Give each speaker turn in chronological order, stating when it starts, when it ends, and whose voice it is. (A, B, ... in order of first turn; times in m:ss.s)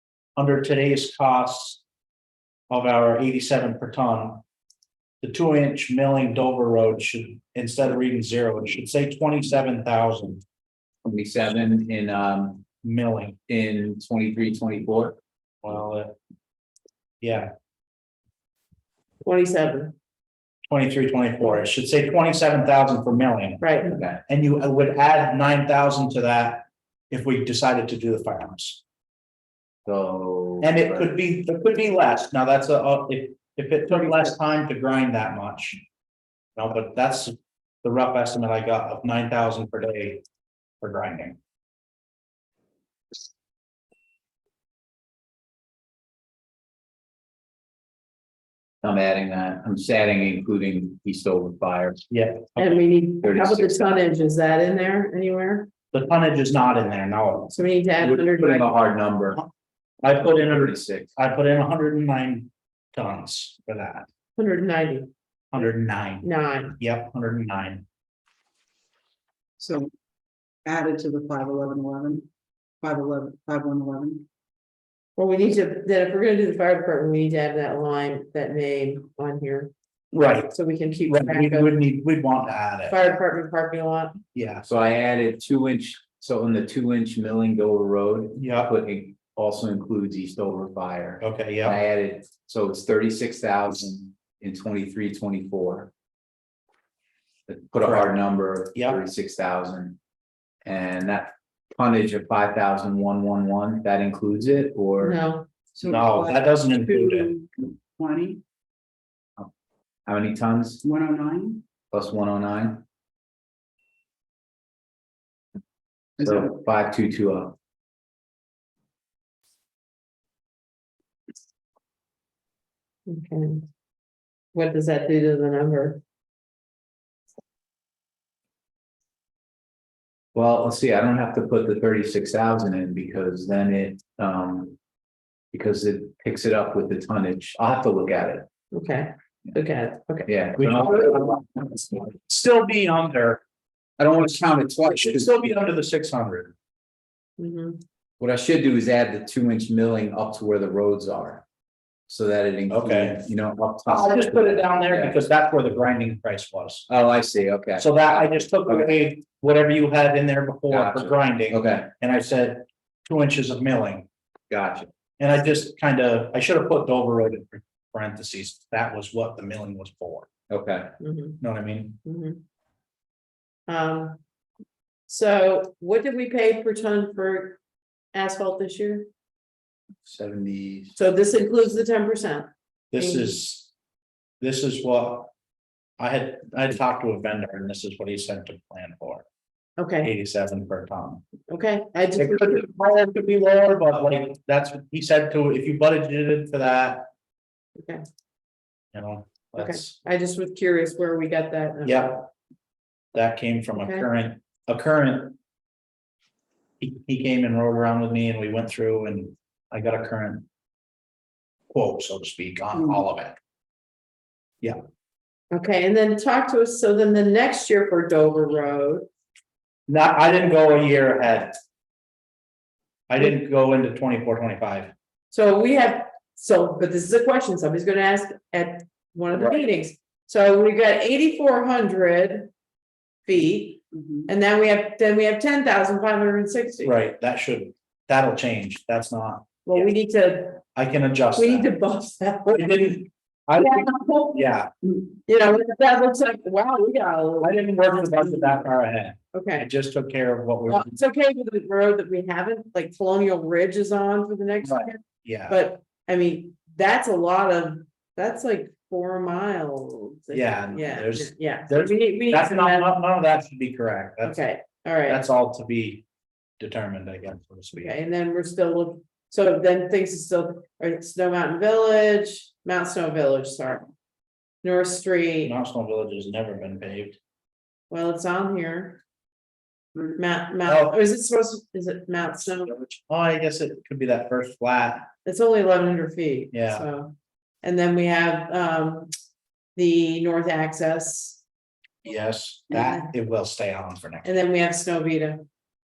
0:00.4-0:01.8 A
0:02.7-0:04.4 A
0:05.2-0:10.4 A
0:11.0-0:12.6 B
0:12.8-0:13.4 A
0:13.5-0:15.2 B
0:15.6-0:16.2 A
0:17.2-0:17.5 A
0:19.2-0:19.9 C
0:20.7-0:23.6 A
0:23.6-0:24.0 C
0:23.8-0:24.2 B
0:24.3-0:28.8 A
0:29.8-0:31.1 B
0:30.6-0:35.8 A
0:36.6-0:40.2 A
0:40.8-0:41.4 A
0:48.8-0:52.0 B
0:52.1-0:52.8 A
0:52.6-0:55.7 C
0:53.2-0:54.0 B
0:55.9-0:57.5 A
0:57.5-0:58.7 C
0:58.0-0:59.4 B
1:00.0-1:04.1 A
1:00.2-1:01.1 B
1:04.4-1:05.1 C
1:05.5-1:07.8 A
1:06.2-1:06.8 C
1:09.6-1:09.9 D
1:10.6-1:12.3 D
1:12.8-1:14.2 D
1:15.2-1:19.7 C
1:20.1-1:20.5 A
1:20.4-1:21.8 C
1:21.1-1:23.0 A
1:22.9-1:24.2 C
1:24.3-1:24.7 A
1:24.6-1:35.9 B
1:28.4-1:28.7 A
1:31.2-1:31.8 A
1:37.5-1:40.0 B
1:37.8-1:38.2 A
1:38.7-1:39.0 A
1:40.6-1:45.2 B
1:45.0-1:45.5 C
1:45.7-1:48.4 D
1:45.8-1:47.3 A
1:50.0-1:50.8 B
1:50.8-1:51.6 D
1:51.9-1:52.8 B
1:56.2-1:56.5 D
1:56.2-1:57.6 B
2:03.1-2:03.6 C
2:04.5-2:06.0 C
2:10.3-2:14.8 B
2:15.5-2:18.4 B
2:18.7-2:21.2 C
2:20.2-2:21.4 B
2:20.6-2:23.4 A
2:24.0-2:25.4 B
2:24.8-2:26.5 A
2:27.4-2:27.8 C
2:28.2-2:31.4 B
2:32.1-2:35.2 B
2:32.7-2:33.2 A
2:33.8-2:36.9 A
2:36.9-2:38.9 B
2:37.8-2:44.0 A
2:40.7-2:41.9 B
2:44.5-2:44.9 B
2:45.2-2:50.3 A
2:50.5-2:50.9 B
2:51.0-2:51.4 C
2:51.4-2:52.0 A
2:52.0-2:52.4 C
2:53.7-2:54.2 C
2:55.1-2:57.6 C
2:58.1-2:59.1 C
3:00.0-3:01.0 B
3:01.0-3:03.4 C
3:02.9-3:03.7 A
3:04.4-3:05.3 A
3:06.0-3:09.2 A
3:09.8-3:10.1 C
3:10.0-3:11.2 A
3:11.5-3:12.6 C
3:12.2-3:17.1 A
3:18.9-3:19.9 A
3:19.5-3:22.2 C
3:21.8-3:22.3 A
3:23.1-3:25.4 A
3:23.7-3:24.1 C
3:26.8-3:30.4 A
3:31.7-3:33.4 A
3:35.5-3:39.1 C
3:39.9-3:41.6 A
3:43.1-3:44.9 A
3:45.3-3:52.5 C
3:53.2-3:57.0 C
3:53.9-3:54.3 D
3:56.8-3:59.9 A
3:59.6-4:00.6 C
4:00.7-4:01.7 A
4:01.3-4:03.0 C
4:02.4-4:04.7 A
4:03.6-4:04.4 C
4:05.1-4:08.7 C
4:07.4-4:10.9 A
4:09.3-4:09.7 C
4:10.7-4:23.0 C
4:14.6-4:15.6 A
4:20.3-4:24.4 A
4:24.2-4:25.2 C
4:25.1-4:26.0 A
4:26.6-4:27.9 A
4:27.7-4:33.9 C
4:34.6-4:35.5 C
4:35.4-4:37.2 A
4:37.9-4:39.0 C
4:40.2-4:42.7 C
4:40.6-4:40.9 A
4:42.6-4:45.1 A
4:45.2-4:49.1 C
4:46.5-4:46.8 A
4:49.8-4:51.4 C
4:52.0-4:54.3 A
4:52.7-4:53.1 C
4:54.2-4:55.4 C